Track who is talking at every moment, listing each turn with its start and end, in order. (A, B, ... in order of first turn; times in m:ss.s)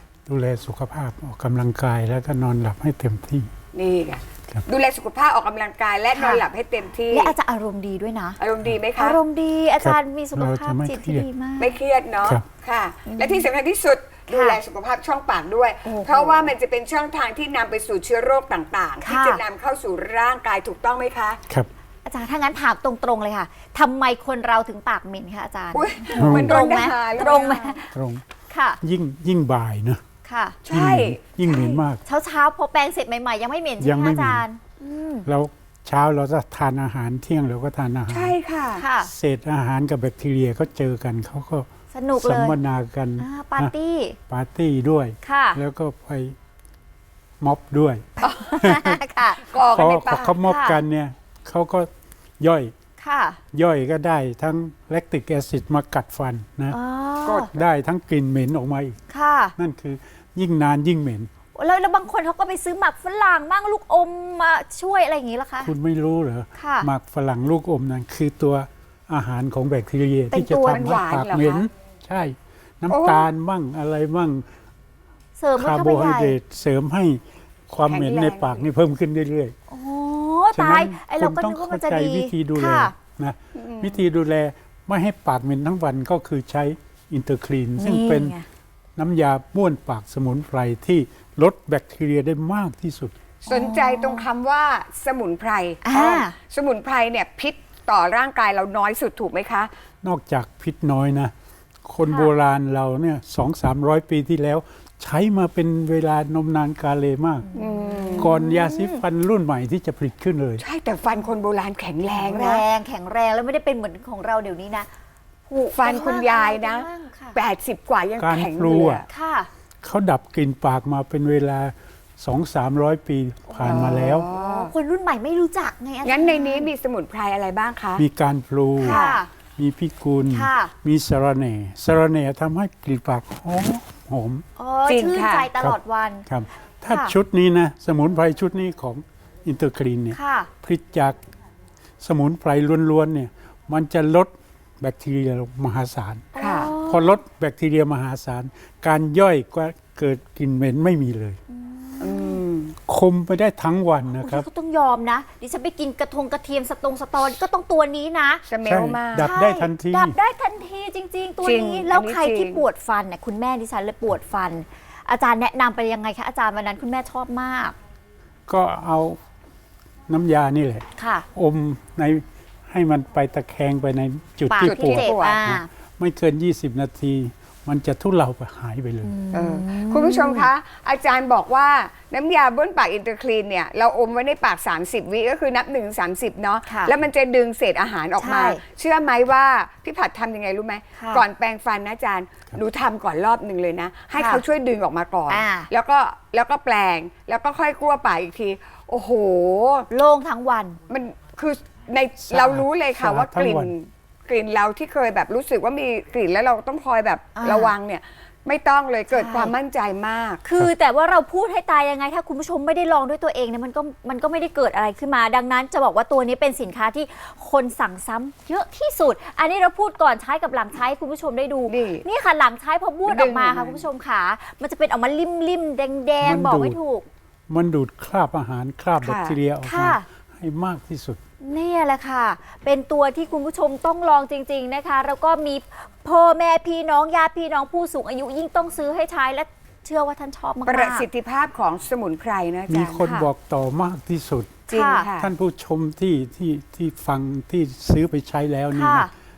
0:00.3-0:03.5 A
0:03.7-0:07.3 B
0:06.1-0:06.4 C
0:07.1-0:08.4 C
0:08.4-0:09.2 B
0:09.0-0:11.8 C
0:09.8-0:11.3 A
0:11.6-0:21.4 B
0:13.0-0:13.5 C
0:14.3-0:14.6 C
0:15.8-0:16.5 C
0:19.0-0:19.4 C
0:22.1-0:27.9 C
0:25.7-0:27.8 B
0:26.2-0:26.7 A
0:27.9-0:28.2 A
0:28.5-0:28.8 C
0:28.8-0:30.0 A
0:30.2-0:30.6 C
0:30.6-0:31.8 B
0:30.7-0:32.0 A
0:32.0-0:35.2 C
0:33.8-0:34.4 A
0:35.2-0:38.4 A
0:38.1-0:38.8 B
0:38.8-0:39.1 C
0:39.0-0:43.7 A
0:41.9-0:42.6 C
0:43.2-0:44.2 C
0:44.3-0:46.3 A
0:45.2-0:45.6 C
0:47.4-0:49.0 A
0:48.2-0:48.7 B
0:48.2-0:49.5 C
0:49.5-0:50.4 B
0:49.7-0:52.7 A
0:50.4-0:50.8 C
0:53.0-0:53.4 C
0:53.5-0:56.8 A
0:56.7-0:57.5 C
0:57.2-0:57.5 B
0:57.5-0:59.0 A
0:59.1-0:59.6 C
0:59.6-1:01.3 A
1:01.5-1:05.7 C
1:05.6-1:14.5 A
1:06.6-1:06.9 C
1:10.3-1:11.0 C
1:10.7-1:11.7 B
1:12.9-1:13.3 B
1:15.4-1:16.4 C
1:15.6-1:19.6 A
1:17.8-1:18.7 B
1:19.7-1:22.9 C
1:20.5-1:28.4 A
1:23.6-1:24.0 B
1:27.8-1:28.5 C
1:29.0-1:33.1 A
1:33.4-1:39.7 B
1:33.5-1:34.2 C
1:35.8-1:36.4 C
1:40.0-1:41.3 A
1:41.8-1:47.5 A
1:47.5-1:48.9 C
1:47.6-1:48.4 B
1:48.2-1:50.6 A
1:50.6-1:52.6 B
1:52.1-1:54.9 C
1:55.5-1:57.4 C
1:55.8-1:59.1 B
1:58.2-1:59.0 A
1:59.1-1:59.5 C
1:59.8-2:04.3 A
2:03.5-2:06.7 C
2:03.6-2:04.7 B
2:06.0-2:08.0 B
2:08.0-2:09.0 A
2:08.8-2:09.3 C
2:08.8-2:09.2 B
2:09.6-2:14.4 A
2:10.2-2:10.7 C
2:14.6-2:16.3 C
2:14.9-2:15.5 B
2:15.6-2:21.2 A
2:16.9-2:17.1 C
2:20.1-2:20.5 C
2:22.0-2:31.4 A
2:26.4-2:27.2 C
2:26.4-2:26.7 B
2:31.5-2:32.4 C
2:32.0-2:32.8 B
2:32.9-2:34.5 A
2:34.1-2:38.4 C
2:38.5-2:39.3 B
2:38.6-2:40.2 A
2:39.2-2:47.8 C
2:41.4-2:42.6 B
2:48.5-2:49.2 A
2:50.1-2:59.1 A
2:51.0-2:51.3 C
2:54.5-2:55.7 C
2:54.6-2:55.4 B
2:59.0-3:00.5 C
2:59.3-3:19.9 B
3:06.7-3:06.9 C
3:08.2-3:08.6 C
3:11.0-3:11.2 C
3:14.2-3:14.4 C
3:15.3-3:15.7 C
3:19.9-3:20.8 C
3:20.9-3:30.4 B
3:22.3-3:23.7 A
3:27.4-3:27.7 C
3:29.1-3:29.5 C
3:30.4-3:47.1 C
3:41.7-3:42.1 B
3:43.1-3:43.8 B
3:46.2-3:46.8 A
3:47.5-3:51.2 A
3:49.0-3:49.4 B
3:49.6-3:50.1 C
3:51.4-4:01.1 C
4:00.7-4:03.2 B
4:02.7-4:04.6 A
4:04.7-4:05.3 B
4:04.7-4:05.1 C
4:05.2-4:09.1 A
4:08.7-4:09.1 C